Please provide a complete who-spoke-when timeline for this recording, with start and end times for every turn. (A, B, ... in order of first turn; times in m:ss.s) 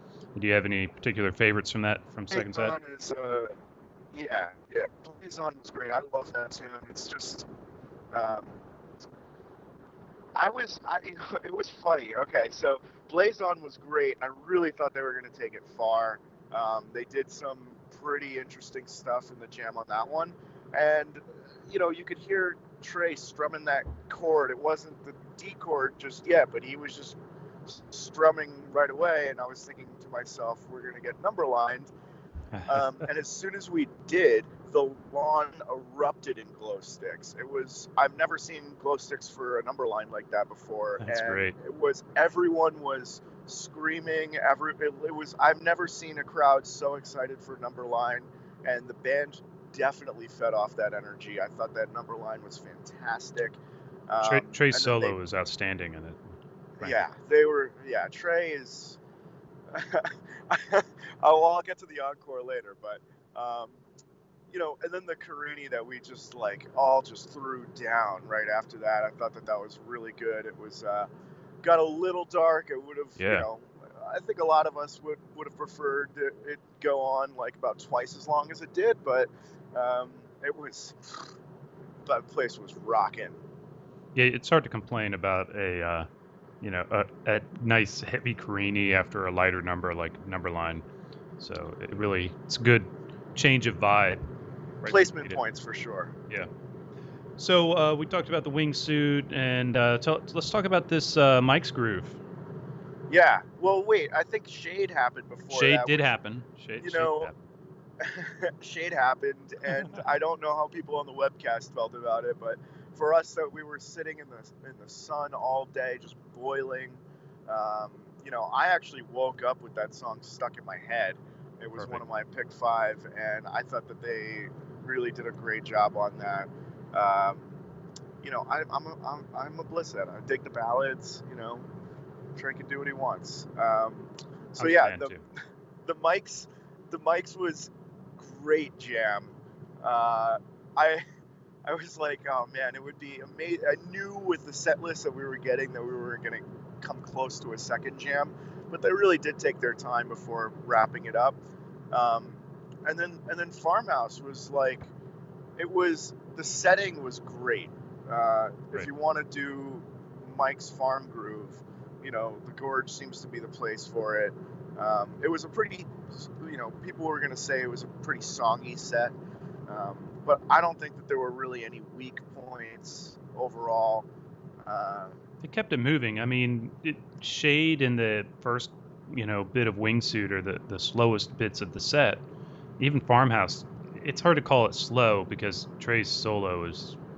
0:00.3-0:02.8 A
0:02.3-0:03.5 B
0:04.1-0:07.5 B
0:08.1-0:08.6 B
0:10.3-0:31.9 B
0:32.5-0:33.0 A
0:32.6-0:55.2 B
0:41.0-0:41.5 A
0:54.2-0:56.2 A
0:56.8-0:59.0 B
0:59.7-1:03.8 B
1:04.5-1:11.1 B
1:11.6-1:21.3 B
1:13.2-1:13.4 A
1:22.0-1:23.4 B
1:24.1-1:26.1 A
1:26.6-1:30.8 A
1:31.4-1:34.2 A
1:34.8-1:35.4 A
1:34.8-1:36.1 B
1:37.4-1:42.2 A
1:43.1-1:46.1 B
1:45.5-1:47.3 A
1:46.8-1:47.3 B
1:48.0-2:07.5 B
2:08.2-2:11.6 B
2:12.4-2:15.2 B
2:14.6-2:15.2 A
2:15.8-2:21.0 B
2:21.6-2:31.4 B
2:31.9-2:34.9 B
2:35.6-2:49.1 B
2:49.7-2:54.1 B
2:54.6-2:55.1 B
2:55.4-3:02.2 A
3:02.8-3:07.0 A